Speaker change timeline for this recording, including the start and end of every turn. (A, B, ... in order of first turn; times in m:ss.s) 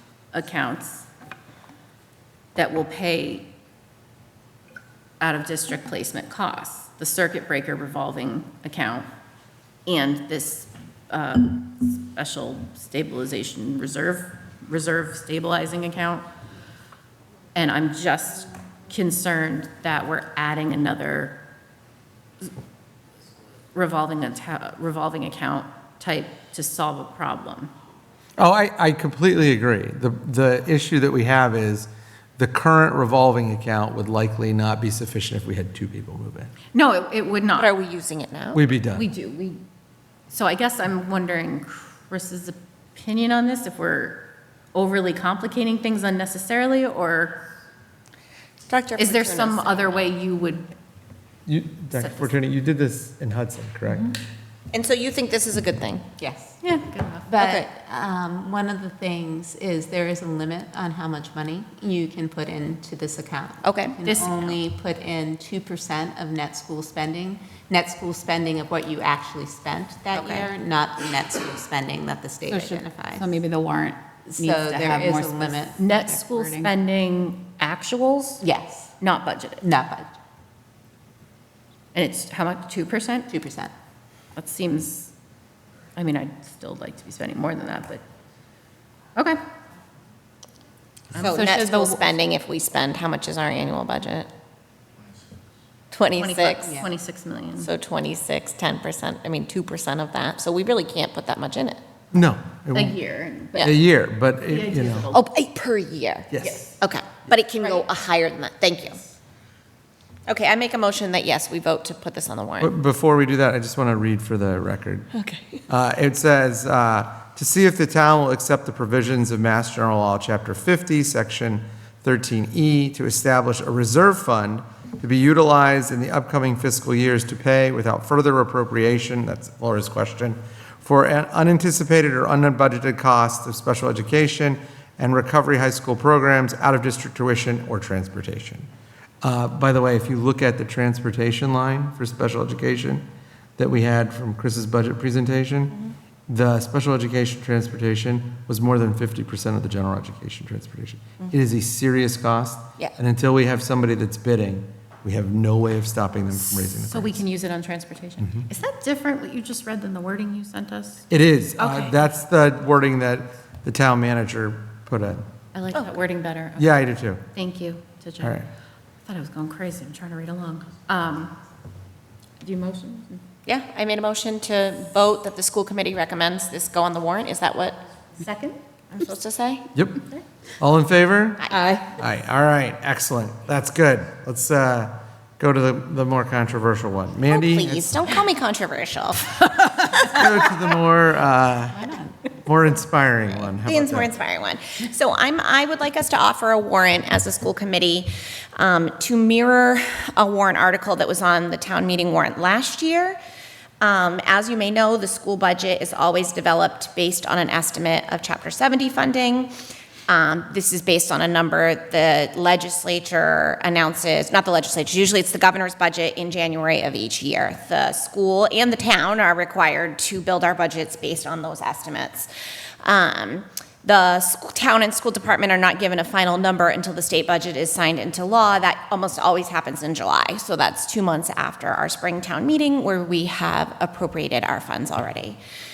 0:00.3-0:01.1 A
0:02.5-0:03.5 A
0:05.2-0:09.1 A
0:09.8-0:16.2 A
0:17.5-0:21.4 A
0:23.7-0:27.7 A
0:28.4-0:36.5 B
0:36.7-0:37.7 A
0:37.6-0:38.6 C
0:38.5-0:39.0 B
0:38.9-0:39.6 A
0:40.3-0:47.4 A
0:48.6-0:50.1 C
0:49.0-0:50.7 A
0:51.4-0:54.2 B
0:52.0-0:52.3 A
0:54.7-0:56.1 C
0:56.2-0:56.6 D
0:56.6-0:57.5 A
0:57.3-1:13.3 D
0:57.3-0:57.7 C
1:03.6-1:04.0 C
1:04.0-1:04.5 A
1:10.1-1:10.5 C
1:12.5-1:14.0 E
1:14.3-1:16.7 D
1:14.4-1:18.4 A
1:14.8-1:15.9 E
1:18.4-1:18.9 D
1:19.0-1:19.6 A
1:19.6-1:20.1 D
1:21.9-1:23.3 A
1:23.3-1:23.7 D
1:24.4-1:25.1 A
1:26.0-1:28.0 A
1:31.1-1:34.3 C
1:31.2-1:32.0 D
1:35.9-1:36.8 C
1:36.1-1:37.7 A
1:36.6-1:36.9 D
1:37.6-1:41.8 C
1:42.1-1:43.0 B
1:42.7-1:43.8 A
1:43.6-1:45.1 B
1:44.4-1:45.2 A
1:45.1-1:46.3 C
1:46.3-1:46.6 B
1:46.4-1:46.8 A
1:46.8-1:49.0 C
1:50.3-1:52.7 C
1:52.6-2:18.7 B
1:55.2-1:55.6 C
2:19.2-2:23.0 B
2:23.6-2:25.8 B
2:26.3-2:37.2 B
2:36.4-2:41.0 A
2:41.1-2:45.2 B
2:41.6-2:42.0 A
2:45.5-2:48.4 A
2:46.6-2:47.2 B
2:48.2-2:48.5 B
2:49.0-2:51.4 A
2:52.4-2:53.2 A
2:53.4-2:57.8 C
2:58.2-2:58.6 A
2:59.0-2:59.7 C
2:59.7-3:00.0 B
3:00.6-3:08.0 B
3:07.3-3:10.6 C
3:10.0-3:11.9 B
3:11.7-3:12.3 D
3:12.4-3:14.1 B
3:13.3-3:23.2 C
3:23.8-3:29.5 C
3:30.1-3:42.3 C
3:42.8-3:55.4 C